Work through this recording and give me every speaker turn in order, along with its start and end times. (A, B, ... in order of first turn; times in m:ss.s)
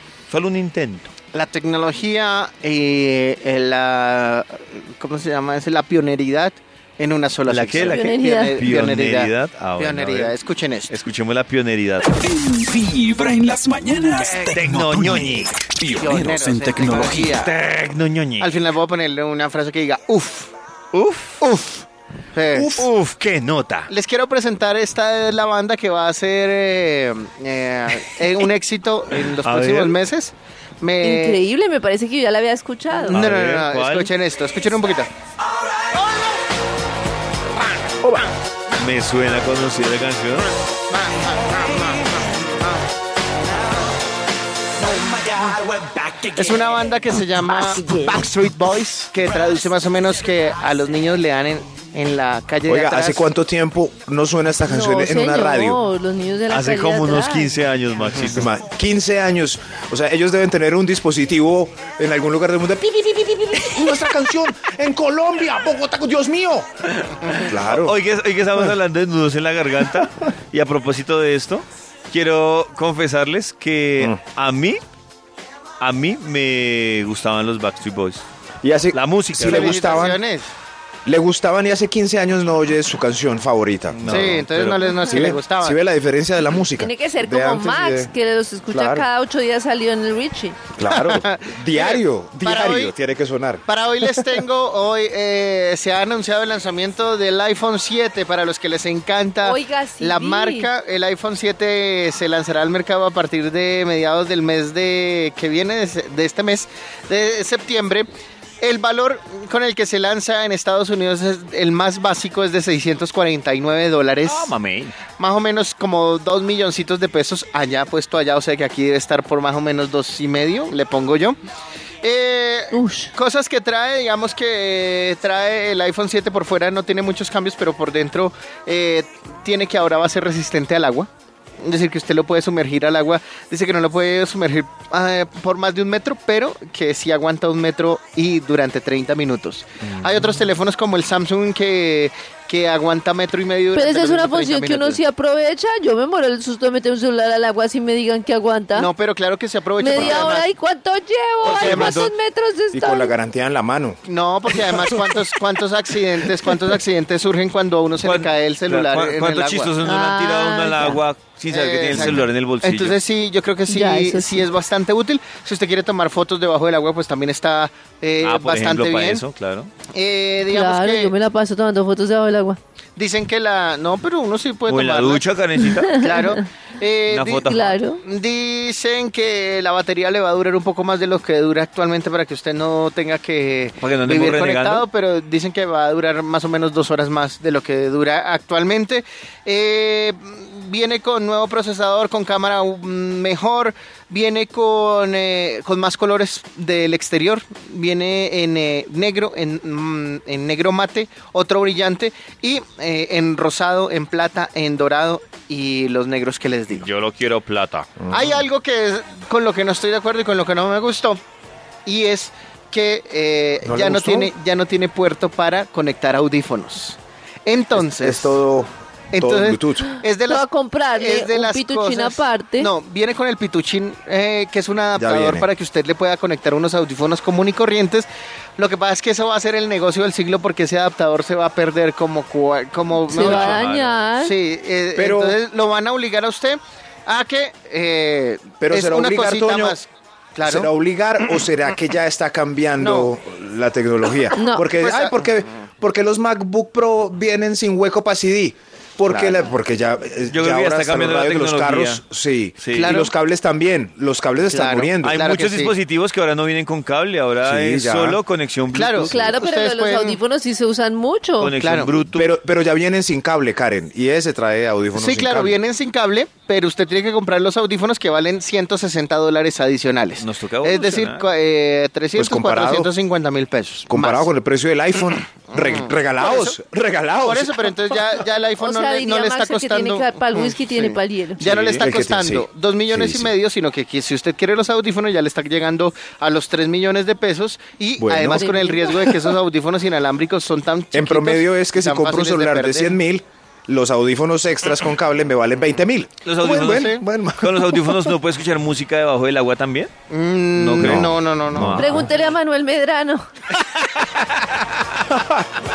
0:00.3-0:01.1 A
0:01.3-0:10.9 B
0:07.5-0:10.3 A
0:07.7-0:08.6 C
0:10.9-0:12.1 A
0:12.1-0:17.4 D
0:14.4-0:15.6 A
0:16.0-0:17.5 B
0:17.2-0:18.6 A
0:18.4-0:20.5 B
0:20.9-0:21.5 A
0:21.4-0:22.9 B
0:22.5-0:23.9 A
0:23.9-0:31.4 B
0:29.4-0:30.0 A
0:31.0-0:33.2 C
0:32.9-0:35.1 B
0:33.1-0:34.1 A
0:38.7-0:40.5 A
0:40.9-0:41.9 B
0:46.2-0:53.3 B
0:52.6-0:55.8 E
0:54.6-0:57.6 C
0:56.5-0:58.5 A
0:58.1-1:06.7 E
1:07.0-1:14.8 A
1:07.4-1:08.0 E
1:15.8-1:18.2 A
1:18.6-1:20.2 E
1:18.9-1:20.1 A
1:19.4-1:20.5 B
1:21.0-1:24.4 E
1:23.9-1:25.0 A
1:24.1-1:25.8 B
1:25.1-1:28.1 E
1:26.8-1:30.7 C
1:28.7-1:29.1 E
1:30.7-1:33.6 E
1:30.9-1:32.9 B
1:33.6-1:48.1 B
1:39.4-1:40.7 C
1:48.6-1:54.5 B
1:54.2-1:55.0 A
1:55.2-2:01.4 B
2:02.0-2:11.1 B
2:02.7-2:03.1 C
2:11.6-2:25.0 B
2:23.7-2:28.9 C
2:28.7-2:30.5 B
2:29.8-2:33.1 C
2:29.9-2:30.2 A
2:31.4-2:32.1 A
2:31.5-2:31.8 E
2:31.6-2:32.1 B
2:32.7-2:34.0 E
2:34.0-2:39.7 B
2:38.0-2:43.0 A
2:39.8-2:41.0 C
2:41.5-2:49.2 B
2:41.9-2:42.2 E
2:43.7-2:44.5 C
2:48.2-2:49.7 A
2:49.9-2:51.1 B
2:50.4-2:52.6 C
2:53.0-2:55.3 B
2:54.7-2:56.0 A
2:55.7-2:56.4 C
2:56.0-3:26.9 B
2:57.1-2:57.9 A
2:57.5-2:58.0 C
3:03.8-3:04.8 A
3:26.7-3:28.2 A
3:28.1-3:31.2 B
3:31.8-3:38.4 B
3:33.6-3:34.3 E
3:37.8-3:39.9 E
3:39.1-3:48.1 B
3:40.2-3:42.7 C
3:45.0-3:45.5 E
3:48.6-3:53.6 B
3:52.9-3:54.4 C
3:53.1-3:54.1 A
3:54.2-4:00.7 B
3:54.9-3:55.4 E
3:58.6-3:59.8 E
4:00.4-4:15.2 E
4:02.8-4:03.1 B
4:04.3-4:04.7 C
4:04.7-4:05.2 B
4:09.1-4:09.4 B
4:10.3-4:12.0 A
4:12.6-4:13.0 A
4:12.7-4:13.1 B
4:14.4-4:15.7 B
4:15.0-4:19.3 A
4:17.4-4:18.2 E
4:18.7-4:20.2 B
4:19.0-4:21.6 C
4:21.4-4:22.2 A
4:21.6-4:22.0 B
4:22.1-4:25.6 E
4:24.9-4:34.3 B
4:30.2-4:31.3 A
4:32.2-4:32.9 E
4:33.9-4:37.6 E
4:35.5-4:36.6 B
4:37.2-4:53.0 B
4:38.6-4:41.5 C
4:41.4-4:41.8 A
4:41.4-4:43.3 E
4:48.0-4:48.9 E
4:48.2-4:49.1 C
4:50.9-4:58.1 E
4:56.2-4:59.9 A
4:56.7-4:57.0 B
5:00.1-5:01.9 B
5:00.5-5:02.1 A
5:00.8-5:02.1 E
5:01.8-5:03.2 C